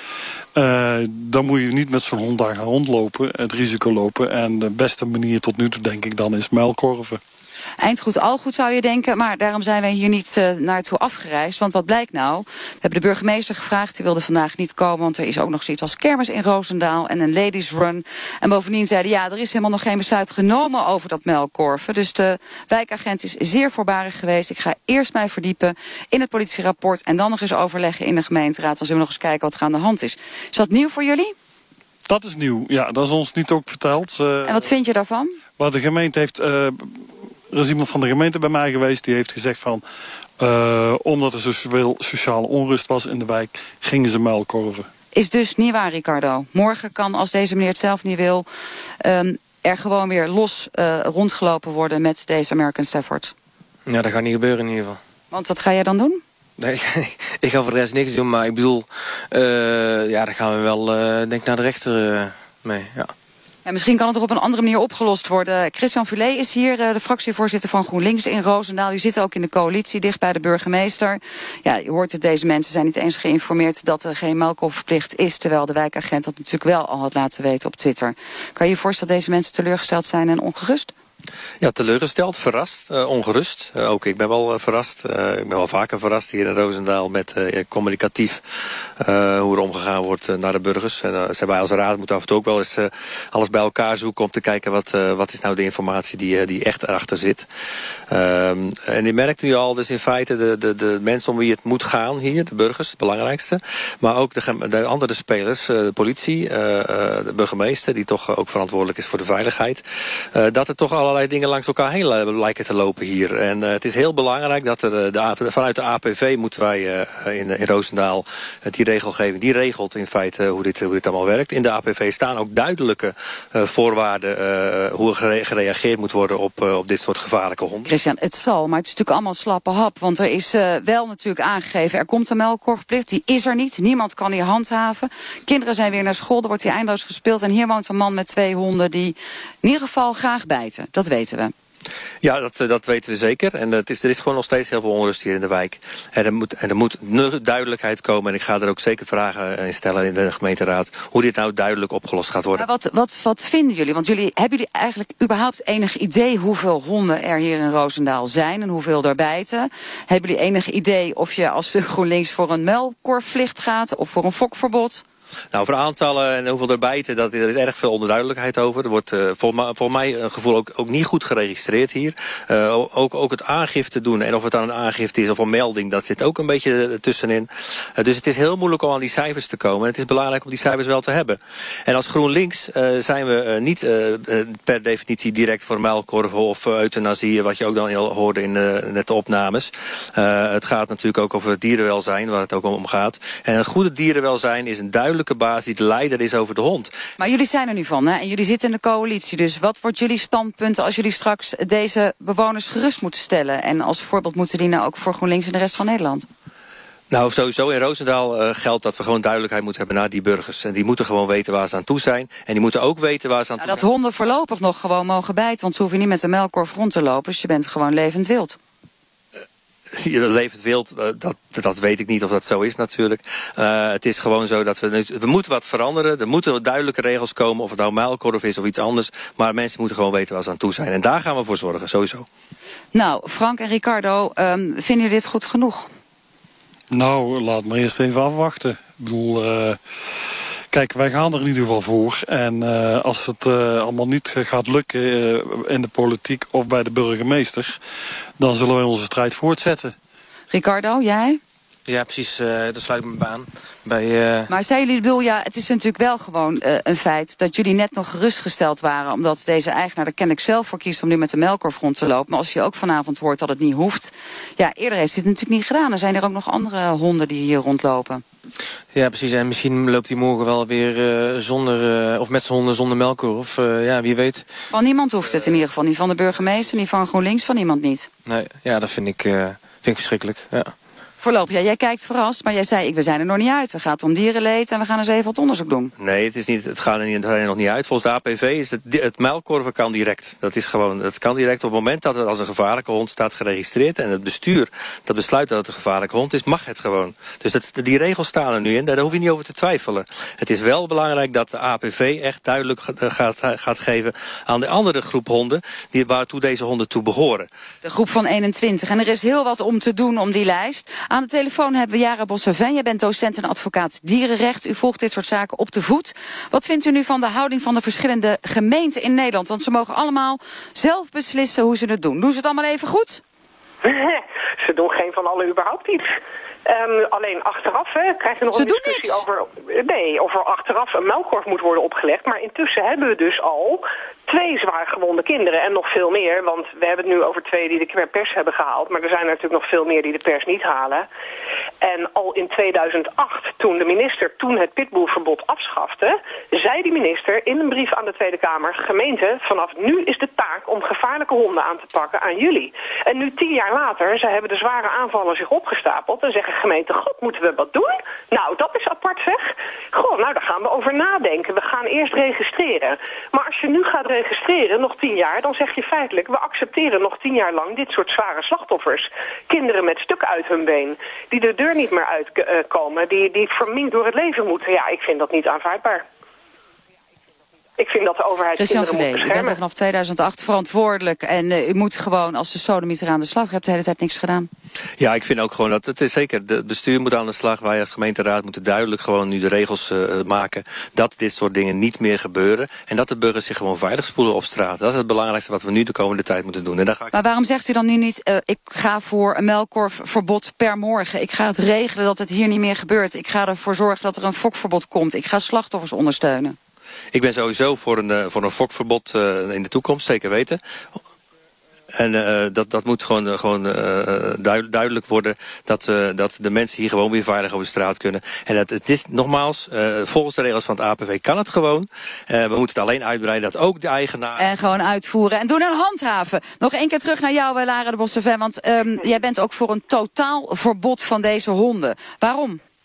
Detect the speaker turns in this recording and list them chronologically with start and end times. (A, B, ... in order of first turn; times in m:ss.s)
0:00.6-0:07.2 A
0:07.8-0:31.3 B
0:32.1-0:34.7 A
0:34.4-0:35.4 B
0:35.6-0:39.8 A
0:40.4-0:44.9 A
0:45.1-0:48.5 B
0:49.0-0:53.3 B
0:53.9-0:55.0 C
0:55.3-0:56.2 B
0:56.6-1:03.1 C
1:03.6-1:20.9 B
1:21.6-1:28.4 D
1:29.0-1:37.5 D
1:38.1-1:49.8 D
1:50.4-2:07.9 D
2:07.9-2:21.5 B
2:22.2-2:32.6 D
2:32.6-2:45.0 B
2:45.5-3:16.9 D
3:17.2-3:26.2 B
3:27.1-3:33.8 D
3:33.6-3:38.6 B
3:39.9-3:52.3 D
3:52.9-3:55.9 B
3:56.9-3:59.8 A
4:00.7-4:07.8 A
4:08.4-4:10.0 A
4:10.5-4:11.4 B
4:11.9-4:14.5 C
4:14.5-4:28.2 B
4:28.9-4:34.5 C
4:34.7-4:38.1 B
4:38.2-4:40.7 C
4:41.2-4:45.9 B
4:46.0-5:07.5 D
5:07.8-5:23.2 B
5:23.8-5:26.1 E
5:26.7-5:41.1 E
5:28.5-5:29.2 B
5:41.8-6:16.0 E
6:17.8-6:19.6 E
6:18.6-6:24.5 B
6:25.0-6:37.1 D
6:37.1-6:46.6 B
6:47.1-6:50.6 D
6:52.0-7:04.4 D
7:04.4-7:12.6 B